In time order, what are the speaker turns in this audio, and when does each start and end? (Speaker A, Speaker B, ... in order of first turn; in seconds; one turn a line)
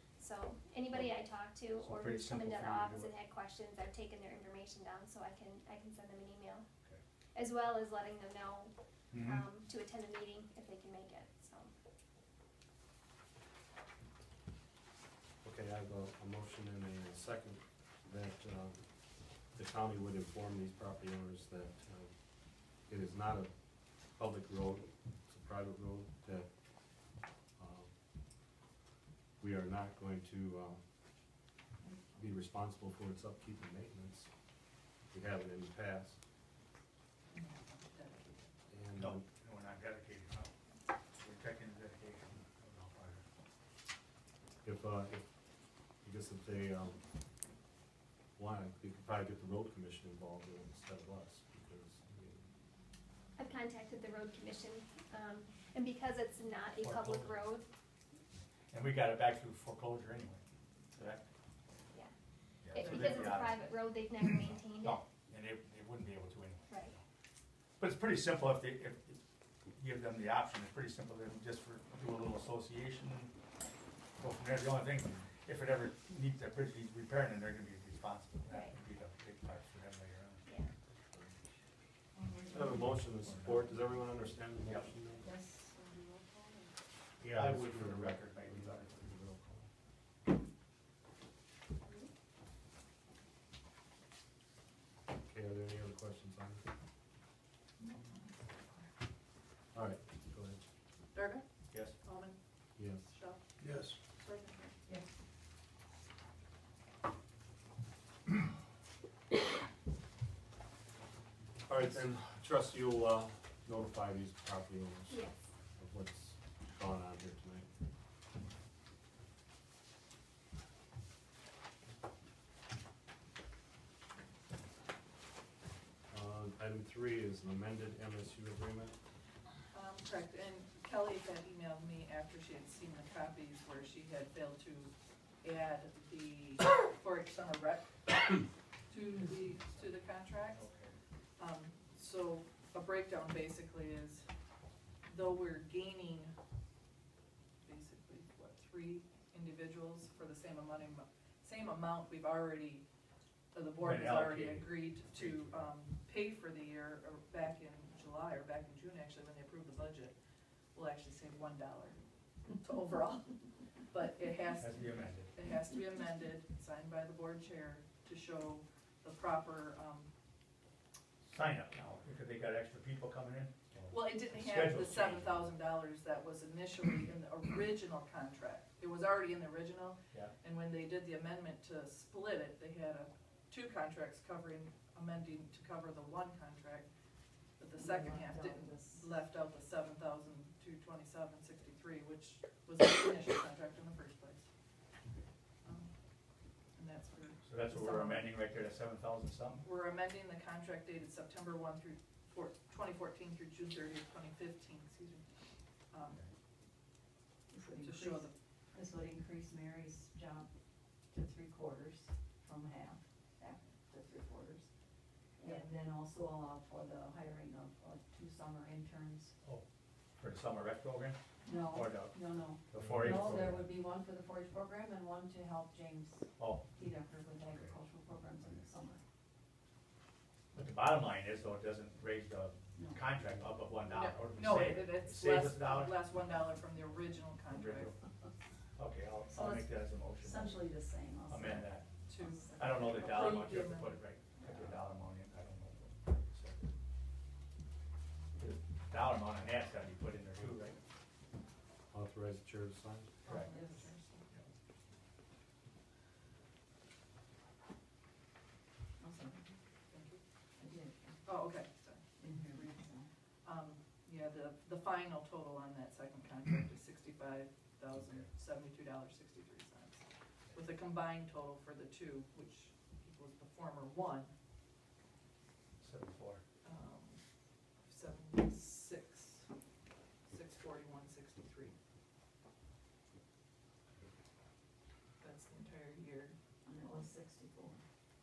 Speaker A: 0.2-6.6
Speaker B: 1.7-3.1
Speaker A: 7.3-8.7
Speaker B: 9.1-9.4
Speaker A: 9.2-11.7
Speaker C: 15.4-18.9
Speaker C: 19.5-22.1
Speaker C: 22.8-26.5
Speaker C: 27.6-27.9
Speaker C: 29.4-30.8
Speaker C: 32.1-34.3
Speaker C: 35.1-36.2
Speaker D: 37.3-38.5
Speaker C: 38.7-39.2
Speaker B: 39.0-40.5
Speaker B: 41.2-43.2
Speaker C: 44.6-45.3
Speaker C: 46.0-47.0
Speaker C: 48.4-52.5
Speaker A: 53.4-57.7
Speaker B: 56.8-57.4
Speaker B: 58.7-60.4
Speaker B: 60.9-61.2
Speaker B: 62.6-63.7
Speaker A: 62.7-65.0
Speaker D: 62.8-63.2
Speaker B: 64.2-67.0
Speaker A: 66.7-66.9
Speaker B: 67.8-69.2
Speaker B: 69.8-73.3
Speaker B: 74.2-80.5
Speaker A: 78.5-78.8
Speaker E: 82.2-82.6
Speaker C: 82.5-85.3
Speaker B: 83.1-84.0
Speaker B: 84.6-84.9
Speaker E: 85.2-86.7
Speaker C: 87.2-89.7
Speaker B: 87.3-89.1
Speaker C: 95.2-96.6
Speaker D: 97.8-98.9
Speaker C: 99.7-100.6
Speaker D: 101.1-102.4
Speaker B: 101.7-102.0
Speaker C: 102.8-103.0
Speaker D: 102.9-103.4
Speaker D: 104.2-104.8
Speaker C: 111.7-115.2
Speaker A: 115.1-115.4
Speaker C: 115.8-117.7
Speaker C: 126.1-129.0
Speaker D: 129.7-140.6
Speaker B: 139.2-140.9
Speaker D: 141.4-144.2
Speaker D: 145.1-146.3
Speaker D: 147.6-152.8
Speaker D: 153.5-160.1
Speaker B: 153.8-155.7
Speaker D: 160.7-163.4
Speaker D: 163.9-170.1
Speaker B: 164.6-165.3
Speaker B: 171.2-175.5
Speaker D: 173.9-186.9
Speaker D: 187.6-194.4
Speaker E: 187.8-188.9
Speaker D: 195.6-195.9
Speaker D: 196.7-198.3
Speaker B: 197.4-199.6
Speaker D: 199.6-205.3
Speaker D: 205.9-206.2
Speaker E: 207.5-210.5
Speaker D: 207.8-208.3
Speaker E: 211.1-214.7
Speaker E: 215.4-219.3
Speaker B: 220.2-223.7
Speaker E: 221.4-229.0
Speaker C: 222.8-223.1
Speaker B: 226.4-226.7
Speaker B: 230.5-236.0
Speaker E: 232.7-233.0
Speaker D: 233.9-237.9
Speaker B: 237.5-237.9
Speaker B: 238.8-240.6
Speaker E: 239.3-242.7
Speaker B: 241.3-241.9
Speaker D: 242.1-244.4
Speaker B: 242.6-246.6
Speaker B: 248.3-250.8
Speaker C: 251.9-253.1
Speaker D: 253.2-254.4
Speaker B: 253.2-253.5
Speaker E: 253.5-253.8
Speaker E: 259.0-259.5
Speaker D: 259.9-260.2
Speaker E: 260.6-261.2
Speaker D: 261.2-262.9
Speaker E: 262.2-263.1
Speaker D: 263.4-274.3
Speaker B: 275.8-276.4
Speaker D: 276.6-277.2
Speaker D: 277.8-279.5
Speaker D: 280.3-281.7
Speaker D: 285.2-286.7
Speaker E: 286.6-287.8